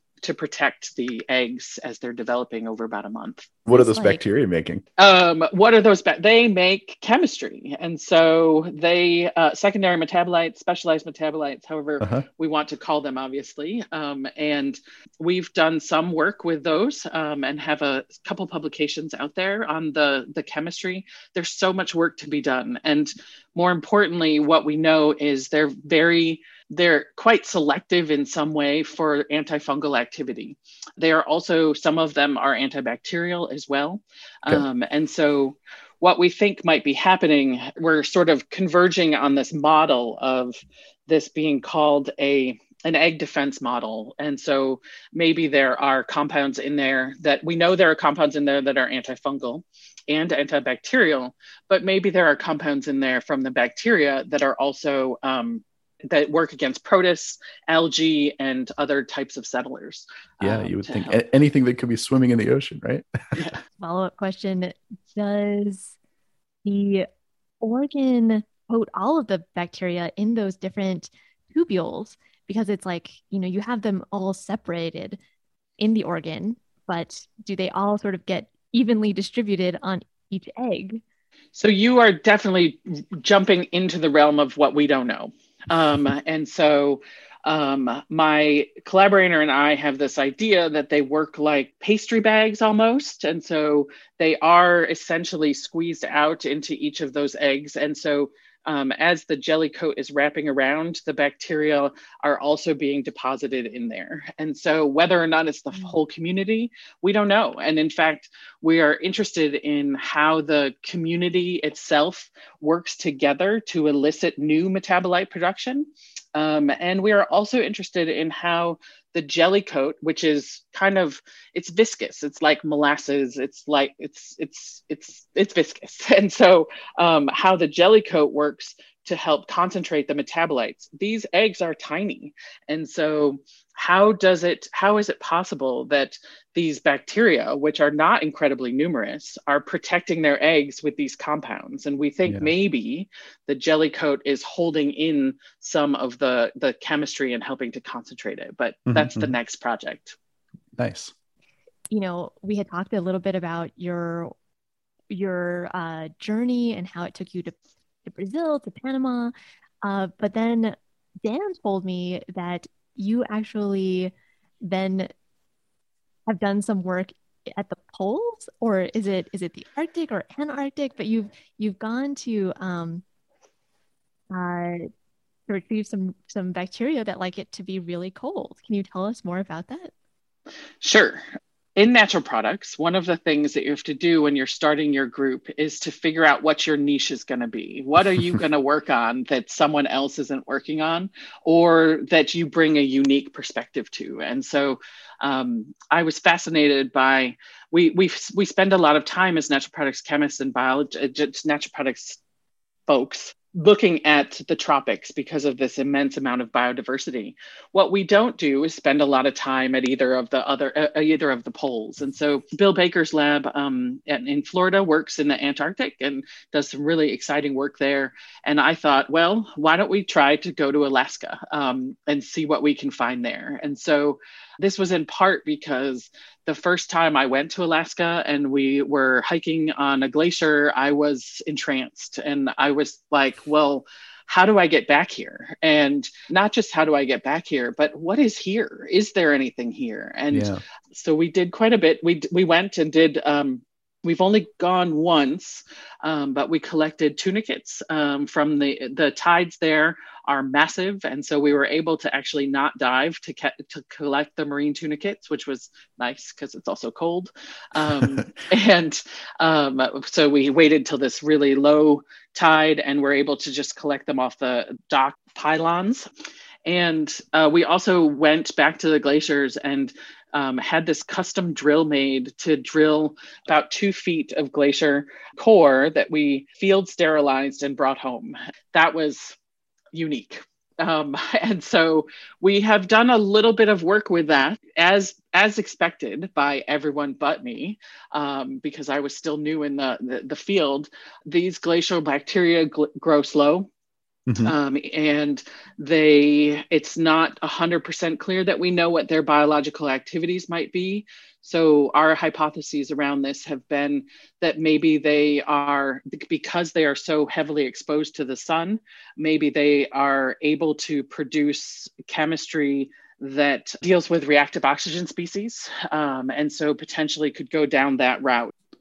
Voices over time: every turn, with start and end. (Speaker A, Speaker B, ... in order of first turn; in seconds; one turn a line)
Speaker A: 0.2-3.5
Speaker B: 3.6-4.8
Speaker C: 3.7-4.2
Speaker A: 5.0-61.2
Speaker B: 60.4-63.4
Speaker C: 63.8-65.9
Speaker C: 66.6-67.1
Speaker C: 67.6-75.2
Speaker C: 75.8-81.0
Speaker A: 81.5-150.2
Speaker B: 142.2-142.5
Speaker B: 148.9-149.3
Speaker B: 150.8-151.1
Speaker C: 151.9-154.3
Speaker C: 155.1-157.5
Speaker C: 158.1-164.1
Speaker C: 164.6-165.1
Speaker C: 166.3-173.0
Speaker C: 174.3-174.9
Speaker C: 175.5-179.9
Speaker A: 180.8-181.2
Speaker A: 181.8-202.2
Speaker A: 202.9-266.1
Speaker B: 240.3-240.6
Speaker A: 266.6-279.4
Speaker A: 279.9-293.7
Speaker B: 294.3-294.5
Speaker A: 294.4-318.5